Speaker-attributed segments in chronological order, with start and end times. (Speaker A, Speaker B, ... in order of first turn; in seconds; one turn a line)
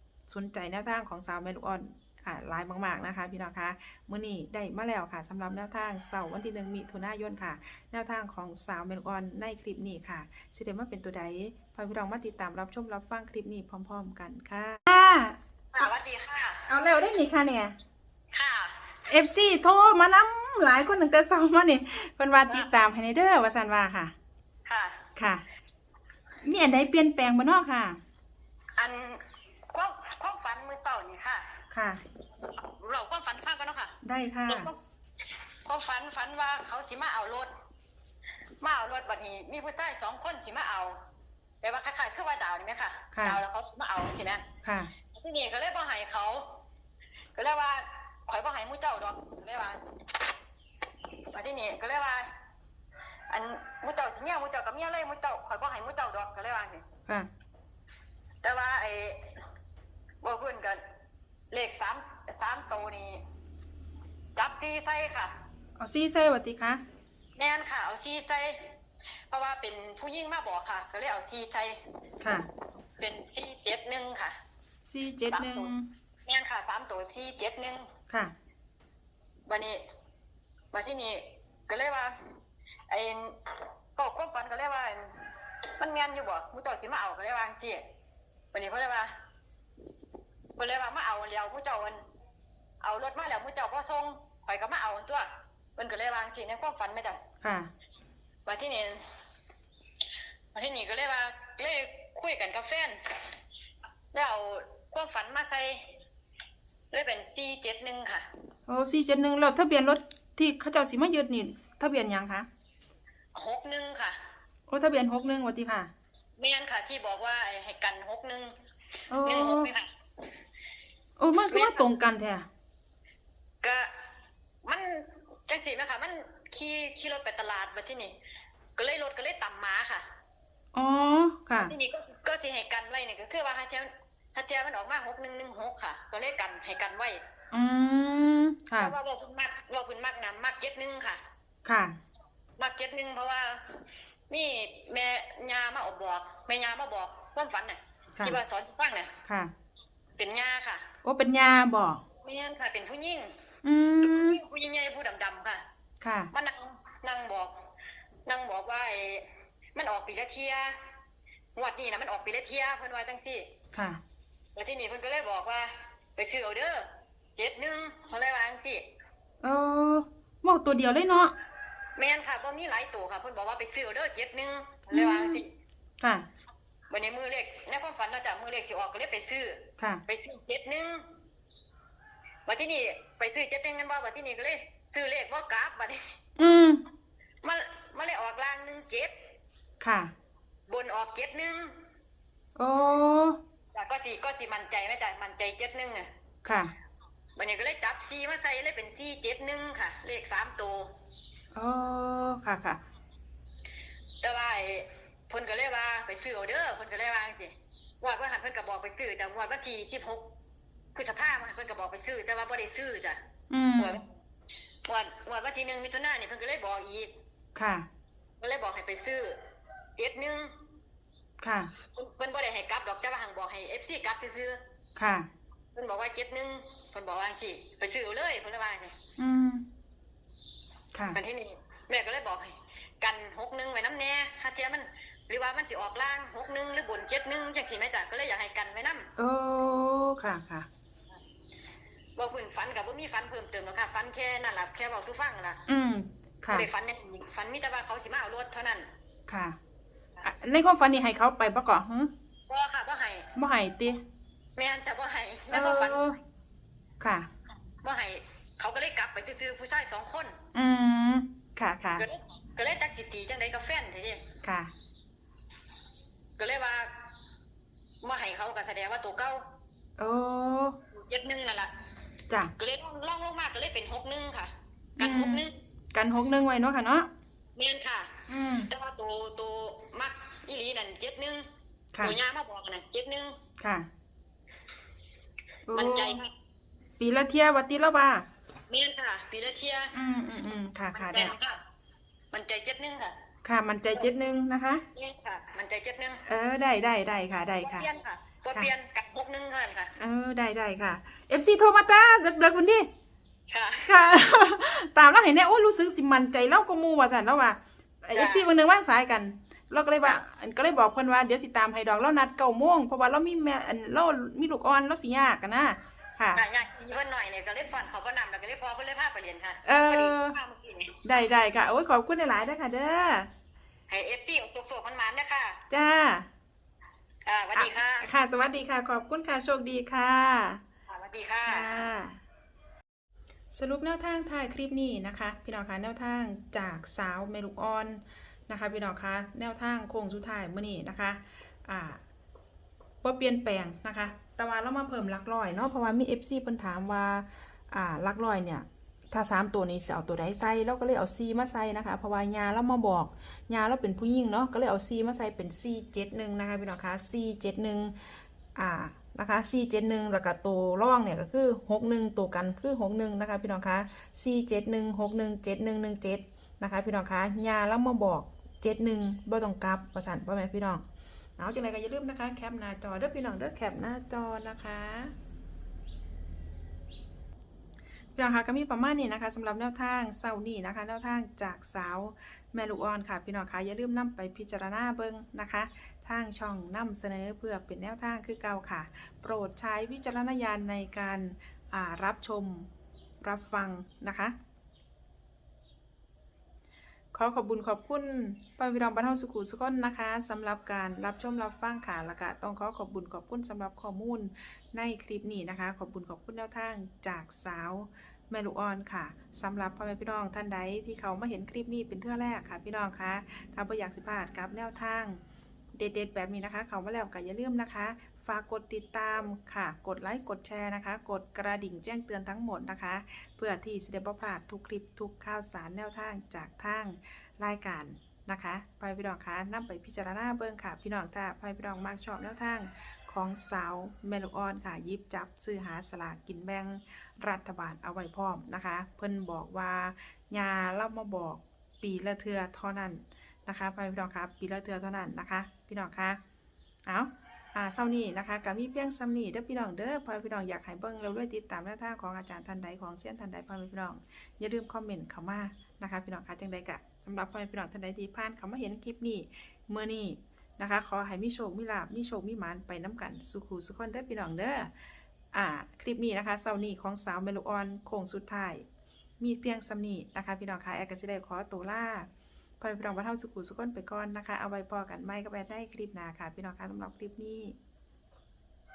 Speaker A: 0.3-15.9
Speaker B: 15.7-16.7
Speaker A: 16.7-17.8
Speaker B: 18.3-19.0
Speaker A: 19.1-24.1
Speaker B: 24.7-25.1
Speaker A: 25.2-25.4
Speaker A: 26.4-28.0
Speaker B: 28.8-31.6
Speaker A: 31.7-32.0
Speaker B: 32.4-34.8
Speaker A: 34.0-34.7
Speaker B: 35.6-37.5
Speaker B: 38.6-41.0
Speaker B: 41.6-44.4
Speaker A: 43.1-43.4
Speaker A: 44.6-44.9
Speaker B: 45.1-46.6
Speaker B: 47.4-50.3
Speaker B: 51.3-52.3
Speaker B: 53.3-56.8
Speaker B: 58.4-59.4
Speaker B: 60.2-60.8
Speaker B: 61.5-63.2
Speaker B: 64.4-65.4
Speaker A: 65.8-66.8
Speaker B: 67.4-68.8
Speaker B: 69.3-71.8
Speaker A: 72.2-72.5
Speaker B: 73.0-74.4
Speaker A: 74.8-75.9
Speaker B: 75.3-75.7
Speaker B: 76.2-77.9
Speaker B: 79.5-79.8
Speaker B: 80.7-82.3
Speaker B: 82.9-87.8
Speaker B: 88.5-89.2
Speaker B: 90.6-92.0
Speaker B: 92.8-97.2
Speaker A: 97.4-97.7
Speaker B: 98.5-99.2
Speaker B: 100.5-103.3
Speaker B: 104.1-106.0
Speaker B: 106.9-108.3
Speaker A: 108.7-112.5
Speaker B: 113.3-114.2
Speaker A: 114.7-115.9
Speaker B: 116.4-118.5
Speaker A: 119.1-119.7
Speaker B: 119.2-119.9
Speaker A: 121.2-122.5
Speaker B: 121.5-121.9
Speaker B: 123.6-123.9
Speaker B: 124.6-128.2
Speaker B: 128.8-130.1
Speaker A: 130.7-131.7
Speaker B: 131.6-137.2
Speaker A: 137.5-138.9
Speaker B: 138.8-141.2
Speaker A: 141.7-142.0
Speaker B: 142.6-149.1
Speaker A: 149.3-149.5
Speaker B: 150.2-150.8
Speaker A: 151.0-152.0
Speaker B: 152.2-153.3
Speaker A: 153.6-154.4
Speaker B: 154.0-155.6
Speaker A: 156.0-156.3
Speaker B: 156.3-157.5
Speaker B: 158.3-160.8
Speaker B: 161.6-163.5
Speaker A: 163.7-164.0
Speaker B: 164.6-168.9
Speaker A: 169.4-171.3
Speaker B: 172.0-175.5
Speaker A: 174.9-175.4
Speaker B: 176.9-181.1
Speaker B: 182.5-186.2
Speaker A: 186.4-186.8
Speaker B: 187.4-189.1
Speaker A: 189.8-190.1
Speaker B: 190.7-191.8
Speaker A: 192.6-193.4
Speaker B: 193.7-196.1
Speaker A: 196.4-196.7
Speaker B: 197.4-201.1
Speaker A: 201.5-202.8
Speaker B: 204.2-210.3
Speaker B: 210.9-213.2
Speaker A: 213.5-214.0
Speaker B: 213.8-214.0
Speaker B: 214.9-217.1
Speaker A: 217.6-217.9
Speaker B: 218.4-219.4
Speaker B: 220.0-220.5
Speaker A: 221.4-221.7
Speaker B: 221.8-224.6
Speaker A: 225.0-225.3
Speaker B: 225.8-229.0
Speaker A: 229.2-229.6
Speaker B: 231.1-239.1
Speaker A: 239.2-240.7
Speaker B: 242.2-245.7
Speaker A: 245.7-246.7
Speaker B: 246.5-248.9
Speaker A: 249.3-249.6
Speaker A: 250.2-252.1
Speaker B: 252.5-253.3
Speaker A: 253.3-254.0
Speaker B: 254.6-256.0
Speaker A: 255.5-256.2
Speaker A: 257.0-257.3
Speaker B: 257.8-260.4
Speaker A: 260.5-262.1
Speaker B: 262.0-264.3
Speaker A: 264.4-264.7
Speaker B: 266.4-267.2
Speaker B: 268.0-269.4
Speaker A: 270.0-270.8
Speaker B: 270.9-271.7
Speaker B: 272.6-275.5
Speaker A: 275.0-277.1
Speaker B: 277.6-281.5
Speaker A: 278.3-278.7
Speaker B: 282.0-283.4
Speaker A: 283.6-283.9
Speaker A: 285.7-286.2
Speaker B: 285.7-286.3
Speaker A: 287.0-288.3
Speaker B: 288.7-289.9
Speaker A: 289.9-291.3
Speaker B: 290.9-291.6
Speaker B: 292.3-293.1
Speaker A: 293.4-294.8
Speaker B: 294.9-296.2
Speaker A: 296.3-297.9
Speaker B: 297.6-299.9
Speaker A: 300.0-302.9
Speaker B: 303.5-303.9
Speaker A: 303.9-316.4
Speaker B: 308.1-308.5
Speaker B: 316.3-321.0
Speaker A: 319.6-320.4
Speaker A: 321.0-323.3
Speaker B: 323.9-325.6
Speaker A: 325.7-326.3
Speaker B: 327.3-328.1
Speaker A: 327.6-330.6
Speaker B: 330.9-331.9
Speaker A: 331.4-332.2
Speaker A: 333.5-342.0
Speaker A: 343.0-370.8
Speaker A: 371.4-375.1
Speaker A: 378.2-392.7
Speaker A: 393.2-394.3
Speaker A: 397.1-415.2
Speaker A: 415.8-446.2
Speaker A: 446.9-464.7
Speaker A: 465.3-468.6
Speaker A: 469.2-472.1
Speaker A: 472.6-477.6